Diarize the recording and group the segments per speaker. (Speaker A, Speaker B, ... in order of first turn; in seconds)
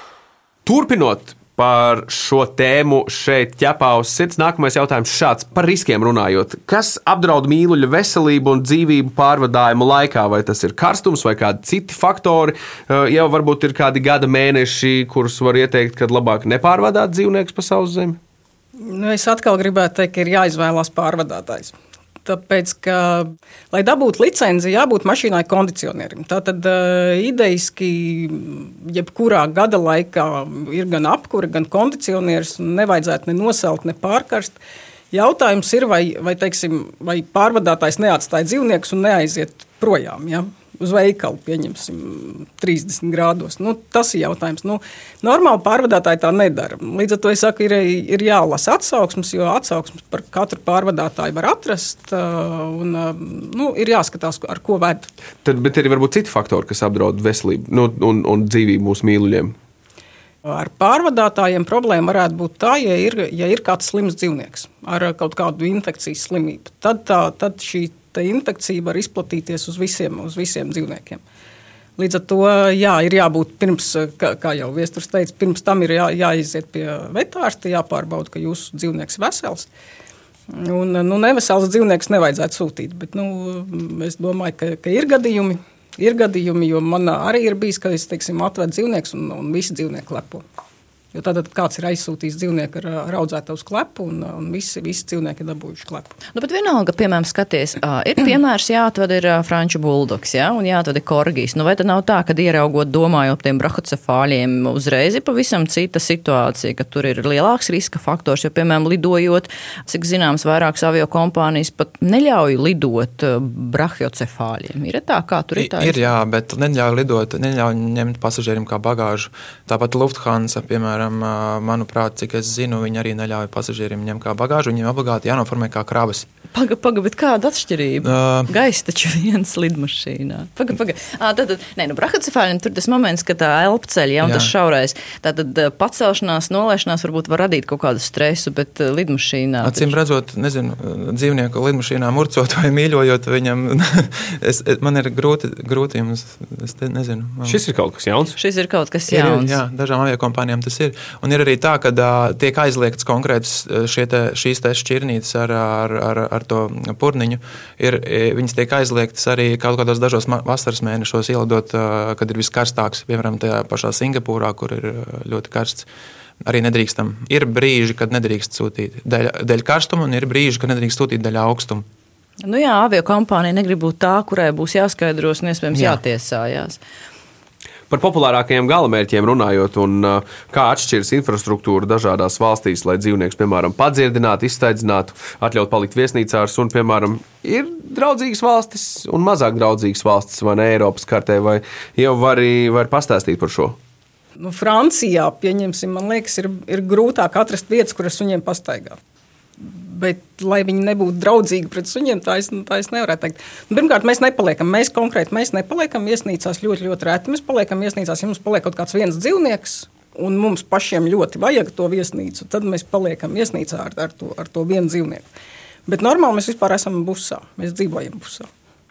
Speaker A: 0.7-18.2, 55.4-59.6, 147.4-148.4, 177.9-193.8
Speaker B: 18.8-34.6, 35.1-55.1, 60.4-71.2, 72.0-79.7, 80.5-90.4, 91.1-96.2, 194.4-199.0, 199.6-215.3, 215.9-218.5
Speaker C: 96.3-116.0, 126.5-140.0, 148.4-149.6, 172.4-176.8
Speaker D: 115.6-126.3, 128.0-128.5, 134.2-134.5, 139.6-147.6, 149.1-165.9, 166.4-171.9, 175.7-176.0